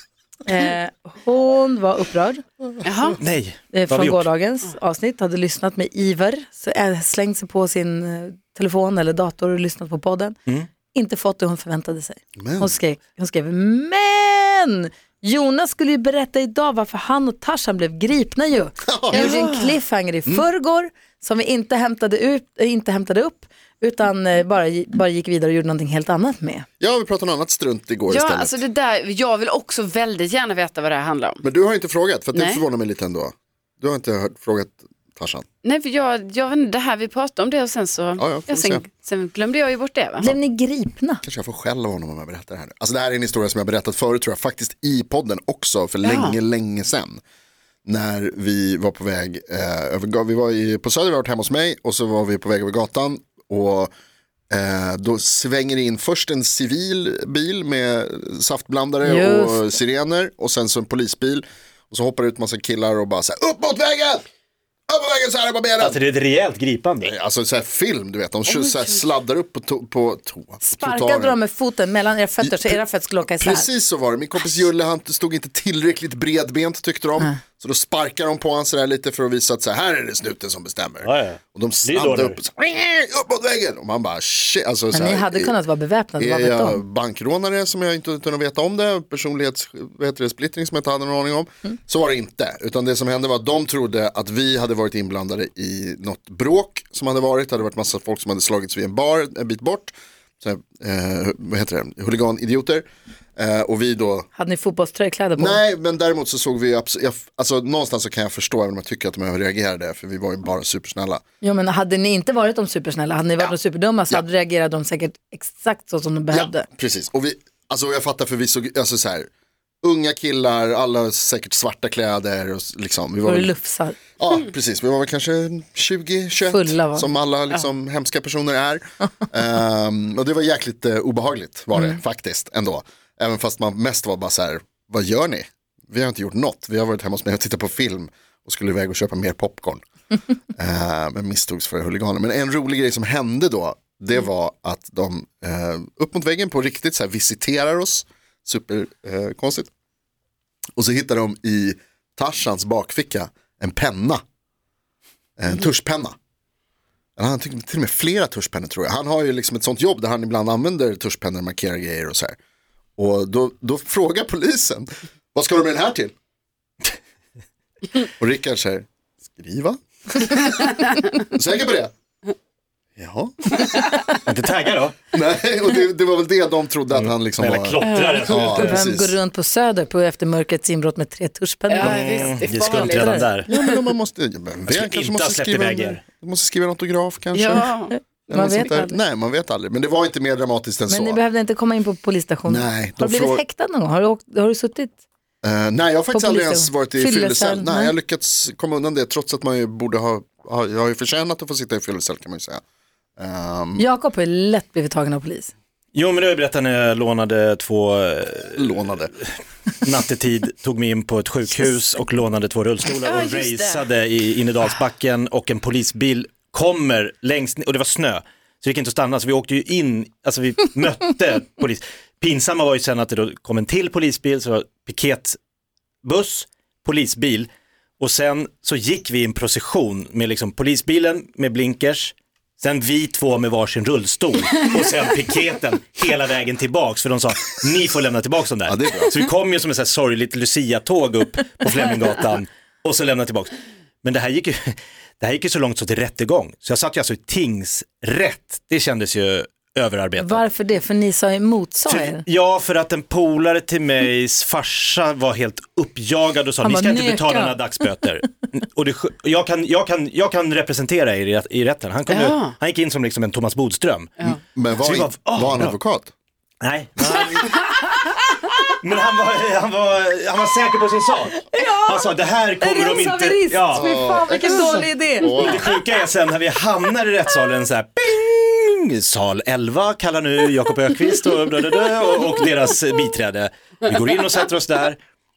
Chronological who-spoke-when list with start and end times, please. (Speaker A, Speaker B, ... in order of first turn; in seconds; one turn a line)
Speaker A: 0.5-2.4
Speaker B: 2.9-3.2
Speaker C: 3.2-4.3
Speaker A: 3.7-10.4
Speaker A: 10.9-26.7
Speaker D: 12.4-12.8
Speaker D: 18.9-19.6
Speaker B: 19.1-19.4
Speaker D: 26.8-28.6
Speaker B: 28.1-31.4
Speaker D: 31.4-35.5
Speaker B: 32.3-32.6
Speaker B: 35.6-40.3
Speaker D: 38.2-38.9
Speaker A: 40.2-41.2
Speaker D: 41.2-47.2
Speaker B: 46.0-46.4
Speaker D: 47.9-53.9
Speaker D: 54.5-64.2
Speaker A: 59.0-59.7
Speaker D: 64.9-66.0
Speaker C: 65.8-67.1
Speaker D: 67.0-71.4
Speaker B: 68.5-69.0
Speaker A: 70.6-73.7
Speaker D: 72.4-72.8
Speaker D: 73.4-85.6
Speaker C: 81.0-82.4
Speaker A: 84.9-86.8
Speaker D: 86.2-102.8
Speaker D: 103.4-104.3
Speaker A: 104.3-105.6
Speaker D: 105.4-111.2
Speaker A: 111.4-116.7
Speaker D: 116.3-119.3
Speaker D: 119.8-123.5
Speaker A: 123.2-124.0
Speaker D: 124.2-139.8
Speaker A: 126.5-127.1
Speaker D: 140.6-149.7
Speaker D: 150.8-154.2
Speaker D: 155.4-156.2
Speaker D: 157.2-162.4
Speaker D: 163.0-166.1
Speaker D: 168.0-171.9
Speaker D: 173.0-174.2
Speaker C: 174.3-175.0
Speaker D: 175.1-179.2
Speaker C: 176.9-178.9
Speaker B: 177.8-178.3
Speaker A: 178.2-183.3
Speaker B: 181.7-183.3
Speaker C: 181.8-183.5
Speaker D: 183.5-187.7
Speaker C: 184.7-186.0
Speaker B: 187.3-188.0
Speaker D: 188.3-191.2
Speaker A: 188.3-189.0
Speaker A: 190.9-195.0
Speaker D: 192.5-193.4
Speaker D: 195.4-202.6
Speaker A: 196.1-197.9
Speaker D: 203.2-203.8
Speaker A: 203.8-205.5
Speaker C: 205.9-208.9
Speaker D: 208.6-209.1
Speaker C: 209.8-225.4
Speaker B: 213.0-213.9
Speaker C: 226.0-227.5
Speaker C: 228.0-250.4
Speaker D: 238.7-239.2
Speaker A: 250.2-252.2
Speaker C: 251.9-265.8
Speaker A: 256.6-257.7
Speaker B: 262.1-262.6
Speaker D: 264.5-266.1
Speaker C: 266.6-268.2
Speaker C: 268.7-273.9
Speaker A: 271.5-275.6
Speaker D: 273.7-275.7
Speaker C: 275.3-285.0